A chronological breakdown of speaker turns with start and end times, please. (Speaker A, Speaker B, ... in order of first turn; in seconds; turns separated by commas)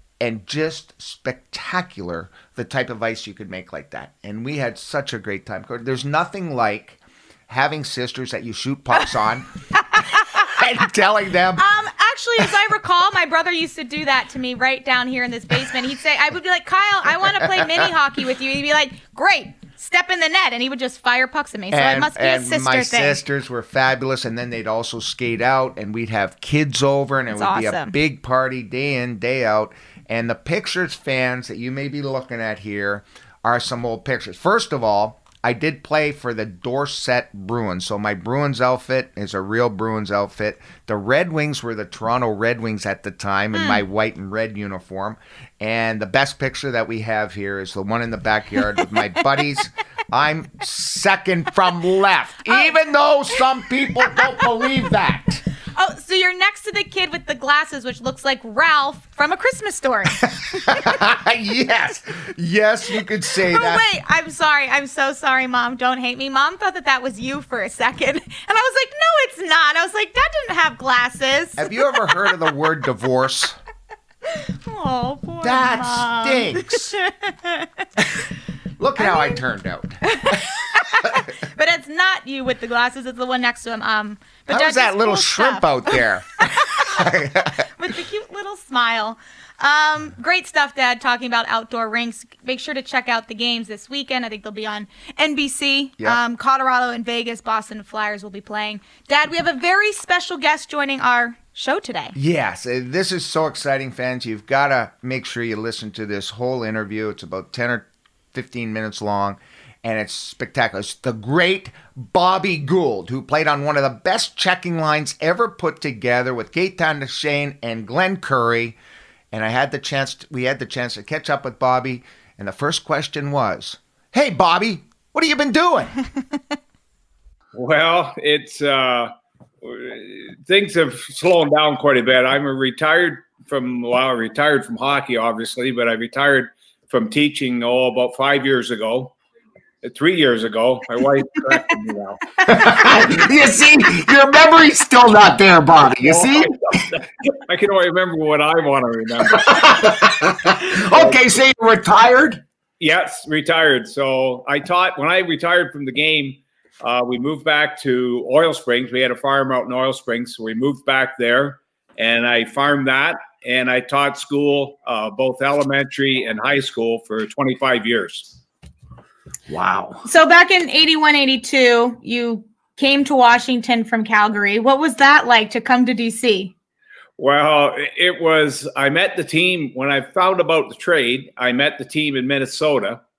Speaker A: 0.2-11.6, Speaker B: 9.8-10.4, Speaker B: 11.6-23.2, Speaker A: 21.7-55.4, Speaker B: 27.3-27.9, Speaker B: 43.5-43.8, Speaker B: 52.5-52.7, Speaker B: 55.8-60.9, Speaker A: 60.2-63.8, Speaker B: 63.5-71.7, Speaker A: 71.6-73.6, Speaker B: 74.3-77.8, Speaker A: 75.4-76.9, Speaker A: 78.8-80.4, Speaker B: 80.0-86.0, Speaker A: 84.5-87.7, Speaker B: 87.6-102.1, Speaker A: 102.1-118.8, Speaker A: 119.3-126.0, Speaker C: 127.5-129.1, Speaker C: 129.6-139.2, Speaker C: 139.8-142.3, Speaker A: 142.4-146.5, Speaker C: 146.0-149.9, Speaker A: 149.3-152.4, Speaker C: 150.8-151.2, Speaker C: 152.8-168.3, Speaker A: 169.5-170.0, Speaker B: 170.1-176.5, Speaker C: 177.2-183.0